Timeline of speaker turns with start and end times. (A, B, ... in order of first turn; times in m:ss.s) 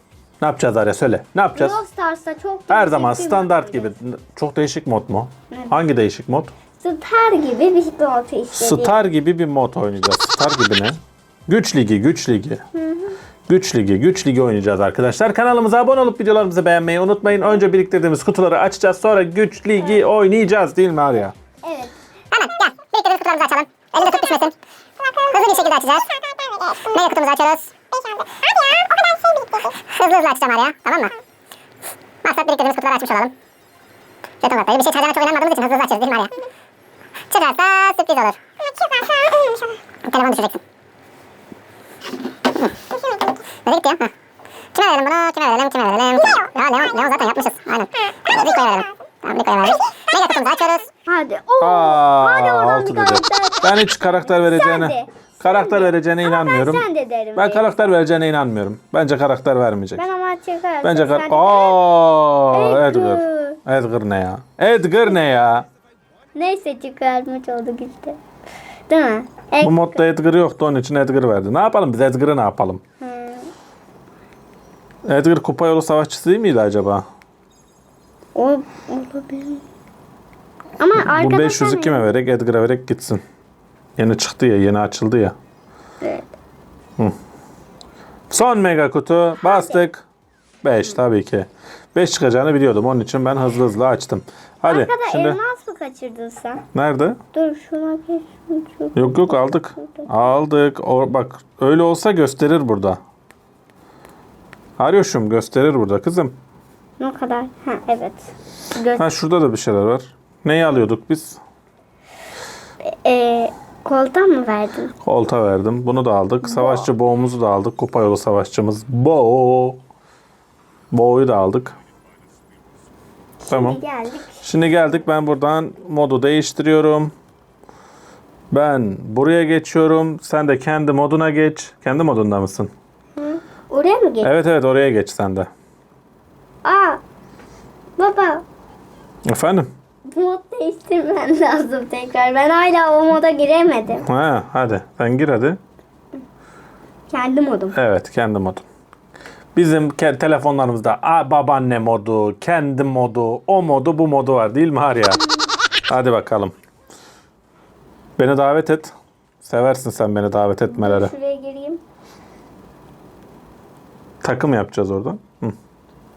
0:00.4-0:01.8 A
0:01.5-0:03.9 B
0:02.7-0:06.5 A
0:06.8-0:08.9 B
0:08.5-0:12.6 A
0:12.7-0:13.2 B
0:13.5-0:21.3 A
0:21.6-0:22.0 B
0:22.3-0:24.5 C
0:25.2-0:26.2 C
0:26.7-0:27.7 C
0:28.8-0:31.1 C
0:32.2-0:33.3 C
0:34.4-0:36.3 C
0:37.3-0:38.4 C
0:40.0-0:40.6 C
0:43.6-0:44.1 C
0:44.7-0:50.9 C
0:51.0-0:57.9 B
0:51.6-0:56.8 A
0:57.4-1:00.0 A
1:00.0-1:01.8 B
1:00.8-1:05.6 A
1:02.5-1:03.6 B
1:06.3-1:08.2 B
1:08.9-1:10.0 B
1:09.6-1:12.8 A
1:13.0-1:13.5 B
1:15.0-1:17.0 A
1:18.3-1:19.6 B
1:20.8-1:22.1 B
1:21.0-1:23.2 A
1:24.0-1:25.4 A
1:26.0-1:26.3 B
1:28.3-1:30.0 A
1:29.4-1:29.8 B
1:30.6-1:35.4 A
1:34.6-1:36.6 B
1:36.7-1:37.2 A
1:37.3-1:40.3 B
1:38.9-1:43.0 A
1:44.8-1:46.4 A
1:47.0-1:49.1 B
1:49.0-1:51.4 A
1:52.8-1:54.9 B
1:55.0-1:59.8 A
1:56.4-1:56.9 B
2:00.9-2:01.8 A
2:03.4-2:04.4 B
2:03.5-2:03.8 A
2:04.4-2:07.1 A
2:08.5-2:12.7 A
2:13.2-2:14.3 B
2:14.2-2:15.5 A
2:16.6-2:17.0 B
2:18.0-2:18.4 B
2:19.2-2:19.7 A
2:20.1-2:24.0 B
2:24.0-2:25.6 A
2:27.1-2:27.8 B
2:27.7-2:28.6 A
2:29.5-2:35.2 A
2:35.9-2:36.5 A
2:38.2-2:41.1 A
2:40.6-2:41.8 B
2:44.2-2:45.5 A